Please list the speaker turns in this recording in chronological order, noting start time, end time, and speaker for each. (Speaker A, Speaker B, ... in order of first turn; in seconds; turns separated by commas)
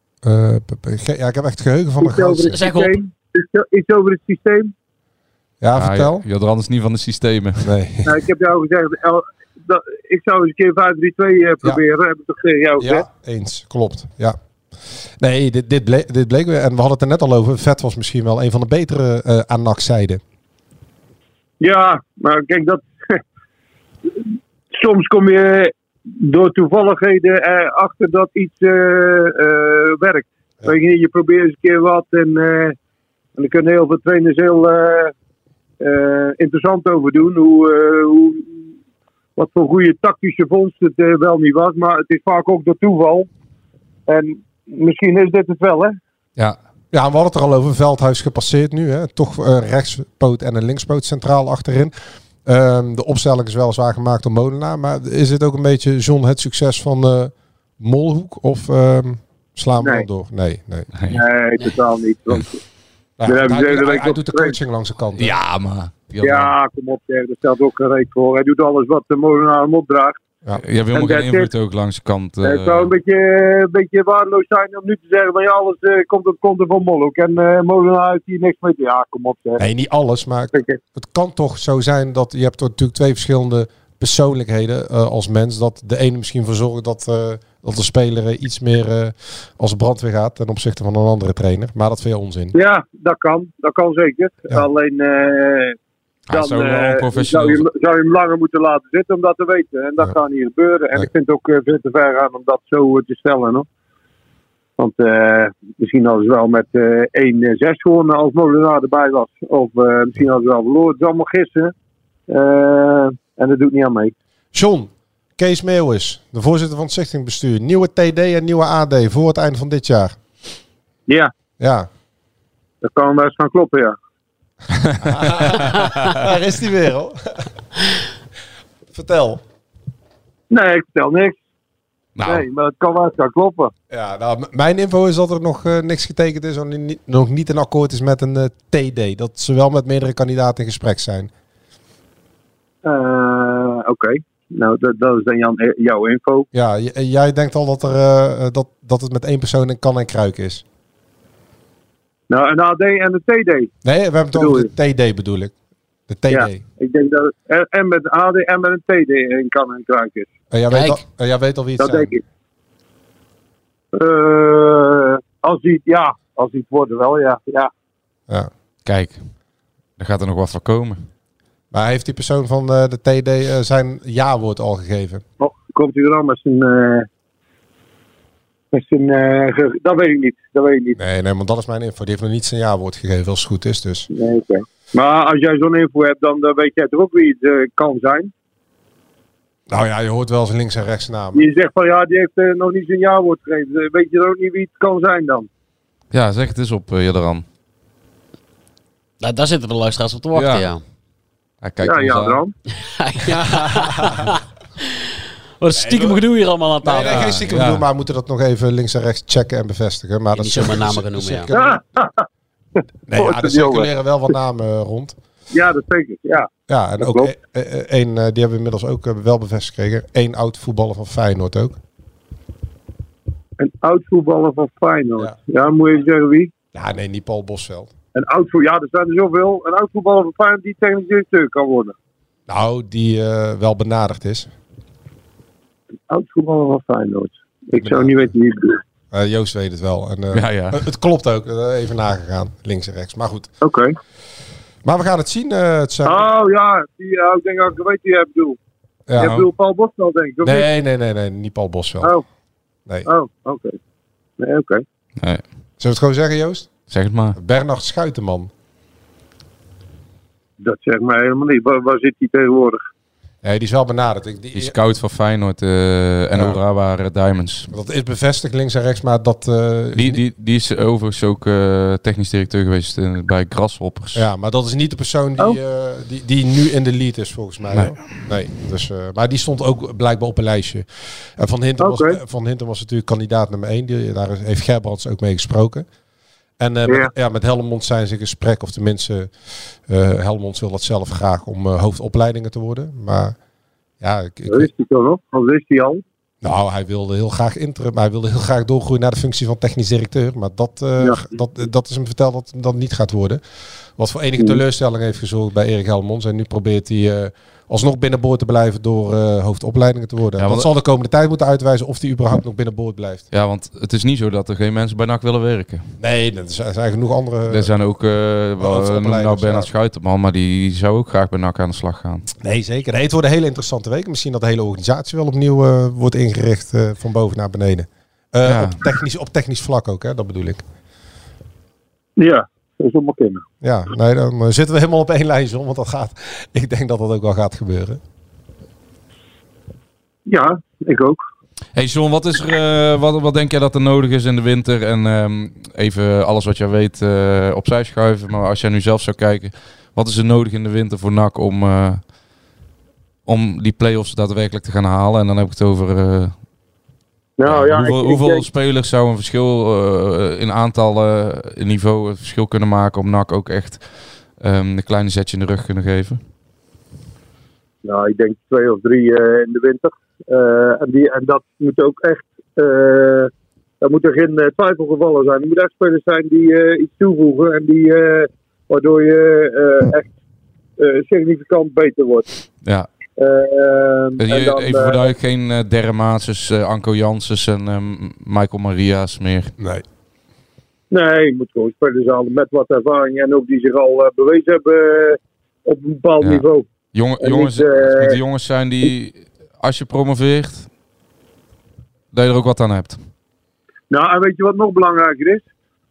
Speaker A: 0.2-2.6, Speaker B: 2.0-4.7, Speaker C: 2.5-2.9, Speaker A: 5.6-6.2, Speaker D: 5.8-7.7, Speaker A: 7.6-8.2, Speaker B: 8.1-13.1, Speaker A: 12.8-14.4, Speaker A: 15.2-20.2, Speaker B: 21.6-23.2, Speaker B: 24.7-32.8, Speaker B: 33.4-35.1, Speaker B: 35.8-38.6, Speaker B: 39.4-43.3, Speaker B: 44.1-46.0, Speaker A: 46.9-51.9, Speaker A: 52.5-60.9, Speaker B: 59.8-60.1, Speaker D: 61.0-61.2, Speaker B: 61.1-62.6, Speaker A: 63.2-65.3, Speaker B: 63.2-64.6, Speaker D: 65.2-66.5, Speaker B: 66.2-70.2, Speaker D: 70.6-72.9, Speaker B: 70.9-71.5, Speaker B: 72.4-79.6, Speaker A: 79.6-92.6, Speaker B: 80.5-80.8, Speaker B: 92.5-95.8, Speaker D: 96.3-97.7, Speaker B: 96.3-103.7, Speaker B: 104.8-111.7, Speaker B: 112.3-114.1, Speaker A: 114.5-120.2, Speaker B: 121.1-121.3, Speaker A: 121.6-121.9, Speaker B: 122.8-124.0, Speaker D: 124.8-126.2, Speaker A: 125.0-127.5, Speaker A: 128.9-129.4, Speaker B: 130.5-131.4, Speaker D: 132.2-132.5, Speaker B: 132.2-133.7, Speaker A: 133.9-141.3, Speaker B: 142.8-146.5, Speaker A: 146.5-150.6, Speaker B: 152.3-153.7, Speaker A: 153.8-155.5, Speaker B: 154.3-154.7, Speaker A: 156.1-156.6, Speaker B: 156.3-160.3, Speaker A: 160.5-162.1, Speaker C: 160.7-161.0, Speaker B: 161.8-162.2, Speaker B: 163.9-167.7, Speaker D: 168.8-169.3, Speaker D: 170.0-171.1, Speaker A: 171.7-175.2, Speaker B: 175.4-177.1, Speaker B: 178.7-181.0, Speaker A: 181.0-184.1, Speaker B: 184.1-188.3, Speaker A: 189.7-191.5, Speaker B: 191.3-195.5, Speaker D: 196.1-197.4, Speaker C: 199.2-200.8, Speaker D: 200.3-200.7, Speaker D: 201.6-202.4, Speaker B: 201.8-202.5, Speaker C: 202.8-204.4, Speaker C: 205.6-207.4, Speaker A: 205.8-206.2, Speaker A: 206.8-211.8, Speaker D: 207.0-207.8, Speaker C: 210.3-211.5, Speaker B: 211.5-212.3, Speaker A: 213.1-215.2, Speaker B: 213.1-213.9, Speaker B: 215.5-216.5, Speaker A: 216.7-221.8, Speaker B: 217.0-217.3, Speaker B: 223.6-226.5, Speaker A: 226.7-227.9, Speaker B: 228.2-231.9, Speaker A: 232.5-234.5, Speaker B: 236.1-238.8, Speaker A: 237.8-238.3, Speaker A: 239.1-243.5, Speaker D: 240.3-240.8, Speaker B: 243.6-244.0, Speaker A: 244.8-246.3, Speaker B: 246.1-248.6, Speaker A: 249.1-249.4, Speaker B: 249.2-250.7, Speaker A: 250.4-252.1, Speaker B: 253.1-253.8, Speaker B: 254.4-254.8, Speaker A: 255.8-256.7, Speaker D: 256.9-257.4, Speaker A: 257.4-258.5, Speaker B: 260.6-262.8, Speaker A: 263.4-264.7, Speaker D: 264.5-267.7, Speaker A: 266.3-266.6, Speaker A: 267.7-270.2, Speaker D: 269.9-274.2, Speaker A: 274.1-280.9, Speaker D: 277.7-278.0, Speaker A: 281.4-285.9, Speaker B: 281.8-282.2, Speaker A: 286.6-293.4, Speaker A: 294.0-294.7, Speaker B: 294.5-296.0, Speaker A: 296.4-303.4, Speaker A: 304.0-313.2, Speaker D: 310.4-310.7, Speaker D: 313.3-315.9, Speaker A: 316.0-317.7, Speaker D: 317.5-322.3, Speaker A: 318.6-319.7, Speaker A: 322.4-330.6, Speaker D: 328.4-328.8, Speaker B: 332.2-333.4, Speaker A: 333.6-338.0, Speaker B: 340.3-341.2, Speaker D: 341.8-352.0, Speaker D: 353.3-356.3, Speaker B: 357.4-358.4, Speaker D: 357.5-363.9, Speaker D: 364.4-366.2, Speaker B: 367.8-380.1, Speaker B: 380.8-382.3, Speaker B: 383.2-385.1, Speaker D: 384.2-389.5, Speaker A: 389.6-389.8, Speaker B: 390.9-396.7, Speaker D: 396.2-400.7, Speaker B: 397.2-398.2, Speaker D: 402.1-403.0, Speaker B: 403.9-405.4